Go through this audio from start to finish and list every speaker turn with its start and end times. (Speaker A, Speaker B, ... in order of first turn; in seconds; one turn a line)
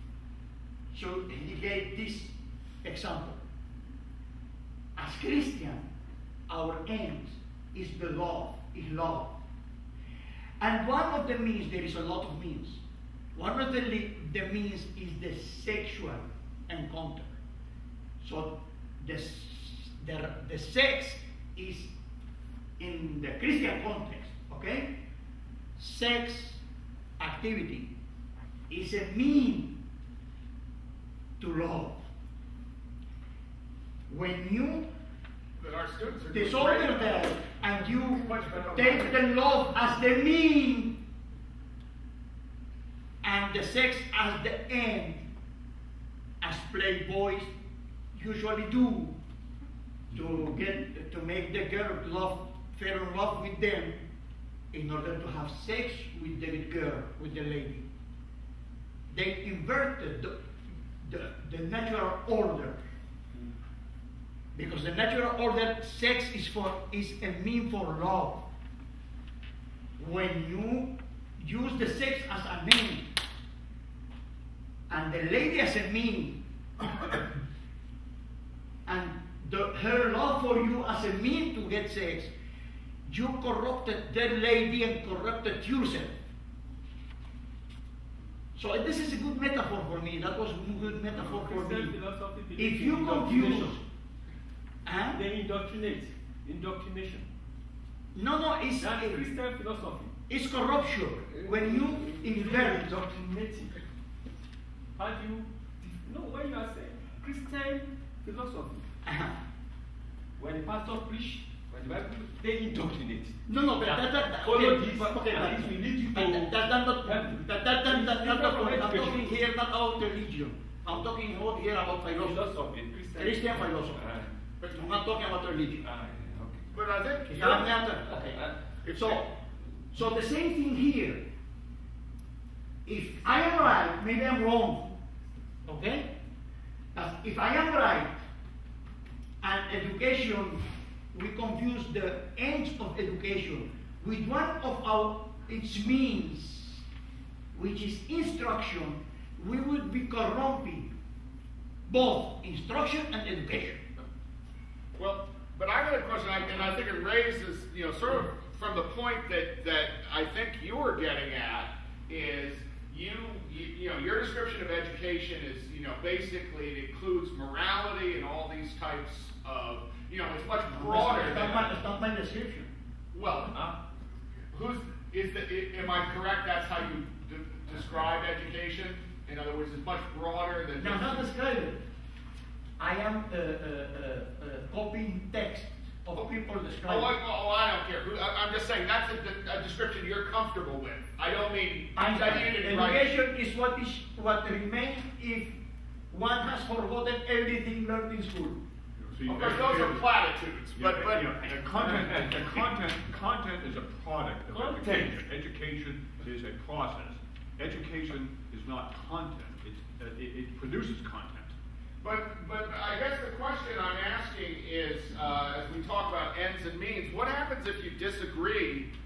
Speaker A: 0.9-3.4
Speaker A: 5.0-5.9
Speaker A: 6.5-9.4
Speaker A: 10.6-12.8
Speaker A: 13.3-17.3
Speaker A: 18.2-21.9
Speaker A: 22.8-25.0
Speaker A: 25.8-26.6
Speaker A: 27.2-27.9
Speaker A: 28.7-29.8
Speaker A: 31.4-32.0
Speaker A: 34.1-34.9
Speaker B: 35.6-37.2
Speaker A: 36.3-41.0
Speaker C: 38.4-39.0
Speaker B: 38.5-38.8
Speaker A: 43.2-45.2
Speaker A: 46.4-47.5
Speaker A: 48.1-49.1
Speaker A: 50.1-54.0
Speaker A: 54.7-57.9
Speaker A: 59.1-60.5
Speaker A: 61.0-62.8
Speaker A: 64.5-68.5
Speaker A: 70.0-73.1
Speaker A: 74.9-77.2
Speaker A: 78.8-82.3
Speaker A: 83.0-86.2
Speaker A: 88.5-92.0
Speaker D: 91.1-93.8
Speaker A: 92.5-93.8
Speaker A: 94.8-95.2
Speaker D: 95.1-97.3
Speaker A: 98.1-99.3
Speaker D: 98.8-100.2
Speaker A: 100.3-103.2
Speaker D: 101.3-103.8
Speaker D: 105.0-108.8
Speaker A: 109.0-109.3
Speaker D: 110.4-119.4
Speaker A: 113.5-122.4
Speaker D: 122.0-124.3
Speaker A: 123.2-124.0
Speaker A: 124.7-125.8
Speaker D: 125.8-126.7
Speaker B: 126.7-127.8
Speaker A: 127.3-129.2
Speaker D: 128.0-128.8
Speaker B: 128.8-129.3
Speaker A: 129.9-131.3
Speaker A: 132.8-134.9
Speaker A: 135.6-136.1
Speaker A: 136.9-138.2
Speaker A: 139.4-146.8
Speaker A: 147.5-150.9
Speaker A: 151.8-153.8
Speaker B: 154.9-171.7
Speaker A: 170.7-172.7
Speaker B: 173.1-173.6
Speaker D: 173.5-173.8
Speaker B: 174.5-181.2
Speaker A: 180.8-181.8
Speaker A: 182.8-187.1
Speaker B: 186.8-193.1
Speaker A: 191.9-195.6
Speaker A: 196.1-198.6
Speaker C: 199.0-200.1
Speaker B: 199.2-202.0
Speaker C: 200.7-211.6
Speaker D: 201.8-202.3
Speaker D: 204.5-205.2
Speaker B: 212.0-218.9